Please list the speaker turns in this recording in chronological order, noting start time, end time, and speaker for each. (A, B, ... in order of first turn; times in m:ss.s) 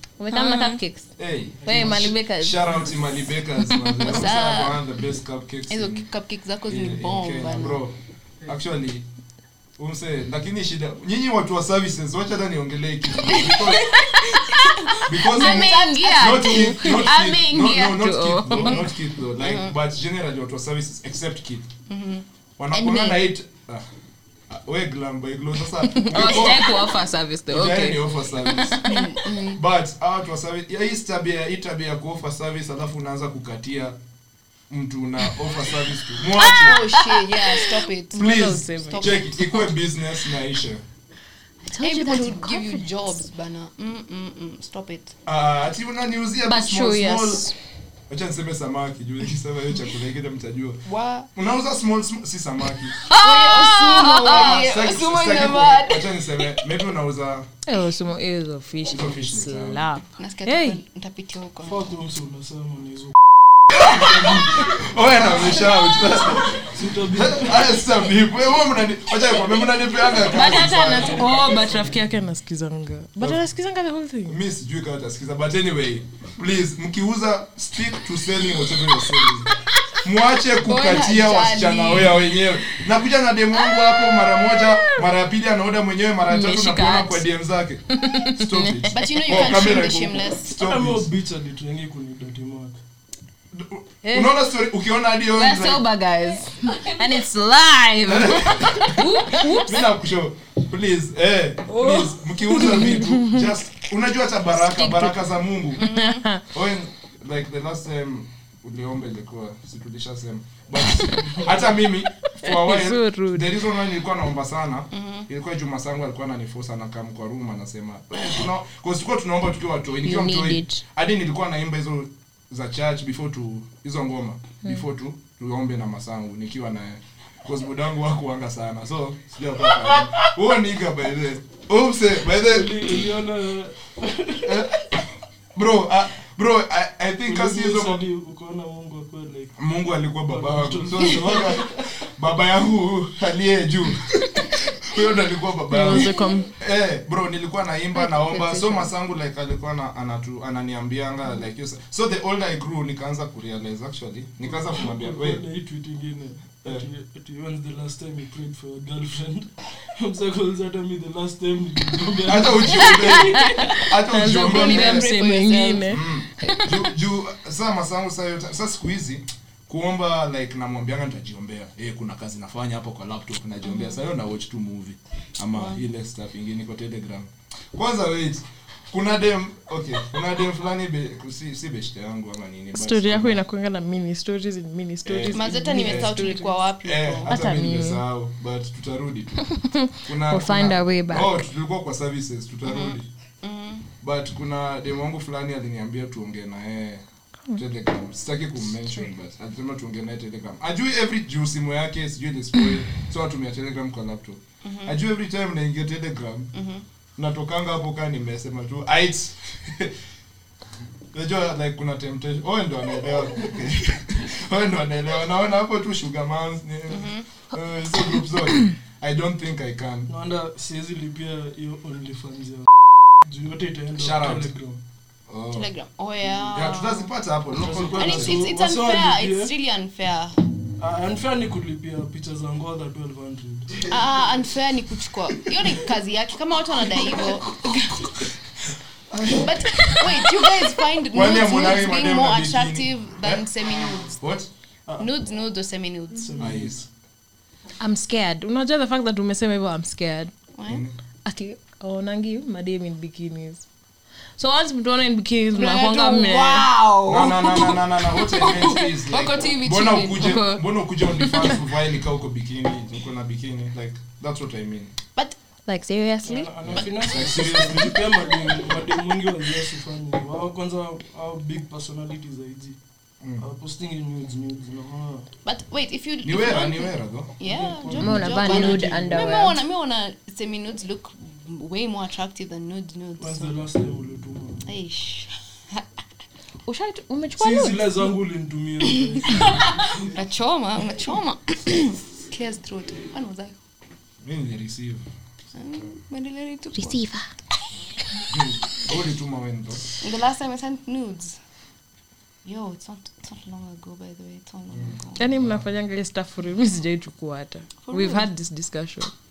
0:00.2-0:01.1 A
0:00.3-0:00.8 B
0:01.2-0:06.1 C
0:01.6-0:02.1 D
0:01.7-0:02.8 A
0:03.8-0:04.0 A
0:04.0-0:04.8 B
0:05.7-0:07.8 B
0:06.7-0:08.0 C
0:08.5-0:09.1 C
0:09.8-0:13.9 C
0:13.2-0:17.0 B
0:13.8-0:18.9 A
0:15.1-0:21.7 C
0:18.5-0:19.7 B
0:21.9-0:23.2 B
0:22.6-0:23.8 C
0:24.5-0:26.8 C
0:25.9-0:28.0 A
0:26.2-0:26.5 B
0:27.5-0:34.0 C
0:28.5-0:29.6 B
0:34.7-0:36.8 C
0:36.4-0:39.7 B
0:36.4-0:39.3 A
0:38.1-0:40.8 C
0:41.7-0:43.2 A
0:41.8-0:45.2 B
0:45.3-0:47.5 C
0:46.5-0:47.6 A
0:48.1-0:50.8 C
0:50.9-0:51.3 B
0:51.4-0:53.0 C
0:53.1-0:54.6 A
0:53.1-0:56.2 B
0:54.2-0:57.5 C
0:57.7-1:00.8 A
0:58.9-0:59.8 C
1:00.2-1:02.0 B
1:01.7-1:03.2 D
1:03.7-1:11.4 C
1:06.6-1:07.8 D
1:10.2-1:14.4 A
1:11.0-1:12.0 D
1:14.3-1:31.1 C
1:20.6-1:22.4 B
1:26.3-1:27.3 A
1:28.0-1:29.2 A
1:28.9-1:30.6 B
1:30.5-1:32.8 D
1:33.5-1:35.8 C
1:34.0-1:34.4 A
1:35.4-1:39.9 A
1:38.1-1:45.9 C
1:41.7-1:43.5 A
1:44.6-1:45.2 A
1:45.8-1:46.3 B
1:45.8-1:46.4 A
1:46.5-2:13.0 C
1:52.4-1:53.5 A
1:54.9-1:55.3 B
2:00.0-2:00.8 A
2:12.4-2:14.6 D
2:14.4-2:14.9 C
2:15.6-2:18.0 C
2:17.3-2:19.6 D
2:19.6-2:35.4 C
2:20.3-2:21.9 D
2:25.7-2:26.5 A
2:28.0-2:28.9 A
2:34.4-2:43.3 D
2:42.2-2:45.1 C
2:42.8-2:46.8 A
2:44.2-2:45.9 B
2:45.9-3:03.4 C
2:53.6-2:54.0 B
2:55.5-2:55.8 B
3:02.7-3:06.6 A
3:05.0-3:06.2 C
3:05.3-3:07.4 B
3:06.8-3:09.5 C
3:07.3-3:08.0 A
3:09.5-3:11.4 A
3:10.0-3:13.1 C
3:12.6-3:13.9 B
3:14.0-3:17.0 C
3:17.6-3:26.5 C
3:24.6-3:25.0 B
3:26.5-3:26.8 B
3:27.2-3:30.0 C
3:31.1-3:40.1 C
3:36.9-3:37.3 B
3:40.1-3:42.7 D
3:43.2-3:44.8 D
3:44.0-3:44.5 C
3:45.3-3:45.7 C
3:45.5-3:47.1 B
3:46.5-3:48.5 C
3:47.6-3:49.5 D
3:48.0-3:50.4 B
3:50.8-3:53.8 D
3:53.9-3:58.2 B
3:57.0-4:03.4 C
3:59.3-4:04.2 B
4:04.2-4:04.5 C
4:05.0-4:06.6 B
4:06.2-4:06.8 D
4:06.4-4:06.8 C
4:07.8-4:10.3 A
4:10.6-4:10.8 B
4:10.7-4:11.0 C
4:11.2-4:13.7 A
4:14.4-4:16.7 A
4:15.6-4:20.5 B
4:17.1-4:24.9 C
4:20.2-4:21.6 A
4:25.7-4:26.8 A
4:26.2-4:32.8 D
4:26.6-4:28.0 C
4:33.2-4:33.5 C
4:33.4-4:35.3 D
4:35.4-4:43.5 B
4:36.2-4:37.3 C
4:37.5-4:39.4 D
4:37.9-4:38.2 C
4:38.0-4:39.6 A
4:43.2-4:44.6 D
4:44.6-4:45.8 B
4:46.7-4:48.0 A
4:47.4-4:50.1 D
4:50.1-4:53.6 B
4:54.2-4:55.0 C
4:55.5-4:57.0 B
4:56.8-4:57.3 A
4:58.3-4:59.9 C
5:00.0-5:01.4 B
5:02.4-5:05.3 B
5:04.7-5:05.6 C
5:05.2-5:09.1 A
5:07.9-5:08.3 B